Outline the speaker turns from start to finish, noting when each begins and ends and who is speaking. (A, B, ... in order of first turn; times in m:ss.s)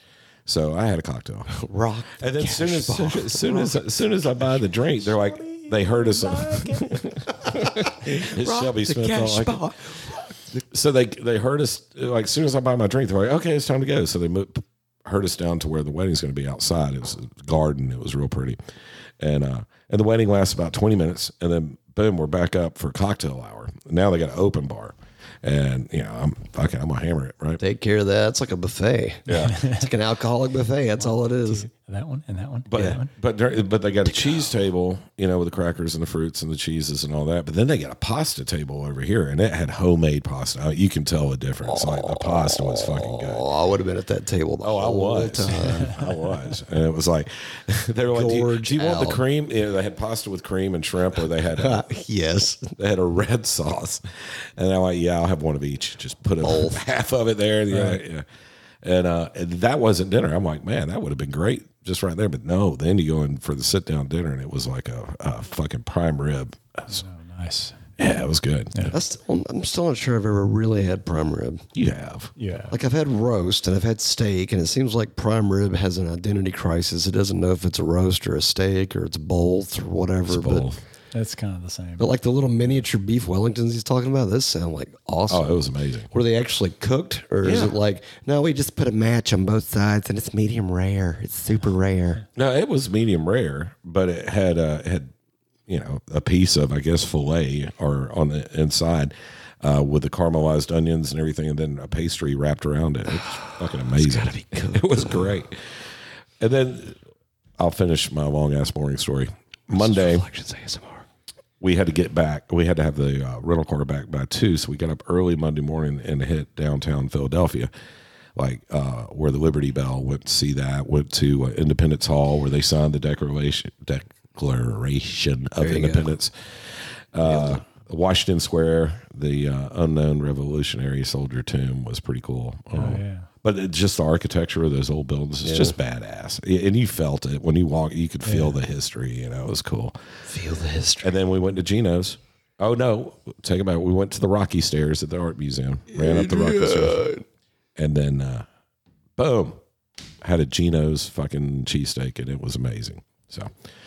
0:00.5-0:01.6 A
0:01.5-0:03.8 B
0:02.2-0:09.7 A
0:05.9-0:06.7 C
0:07.5-0:10.6 B
0:10.7-0:18.6 A
0:19.2-0:27.6 A
0:27.6-0:31.7 B
0:29.3-0:29.6 A
0:29.4-0:29.9 C
0:31.0-0:33.1 C
0:32.7-0:43.5 A
0:41.7-0:46.0 B
0:44.6-0:51.8 A
0:48.1-0:49.2 B
0:51.5-0:52.7 B
0:52.8-0:58.3 A
0:56.4-0:56.8 B
0:57.7-0:58.0 C
0:58.8-1:07.0 A
1:06.9-1:07.8 C
1:08.0-1:09.0 A
1:08.9-1:11.7 B
1:11.8-1:12.3 A
1:12.4-1:12.8 C
1:12.7-1:20.7 B
1:20.3-1:20.8 A
1:21.1-1:22.1 C
1:22.0-1:32.2 B
1:25.3-1:26.1 A
1:27.4-1:27.8 A
1:32.4-1:35.1 A
1:35.7-1:45.7 A
1:43.2-1:45.4 B
1:46.4-1:47.0 A
1:47.6-1:50.2 A
1:49.7-1:51.1 B
1:51.6-1:57.7 A
1:58.4-2:06.3 A
2:05.6-2:06.1 B
2:07.1-2:20.0 A
2:07.3-2:07.6 B
2:12.7-2:13.3 C
2:15.4-2:15.8 B
2:18.2-2:18.6 C
2:20.3-2:21.1 B
2:21.0-2:27.1 A
2:25.9-2:27.2 B
2:27.8-2:28.5 A
2:29.2-2:29.6 A
2:30.2-2:33.5 A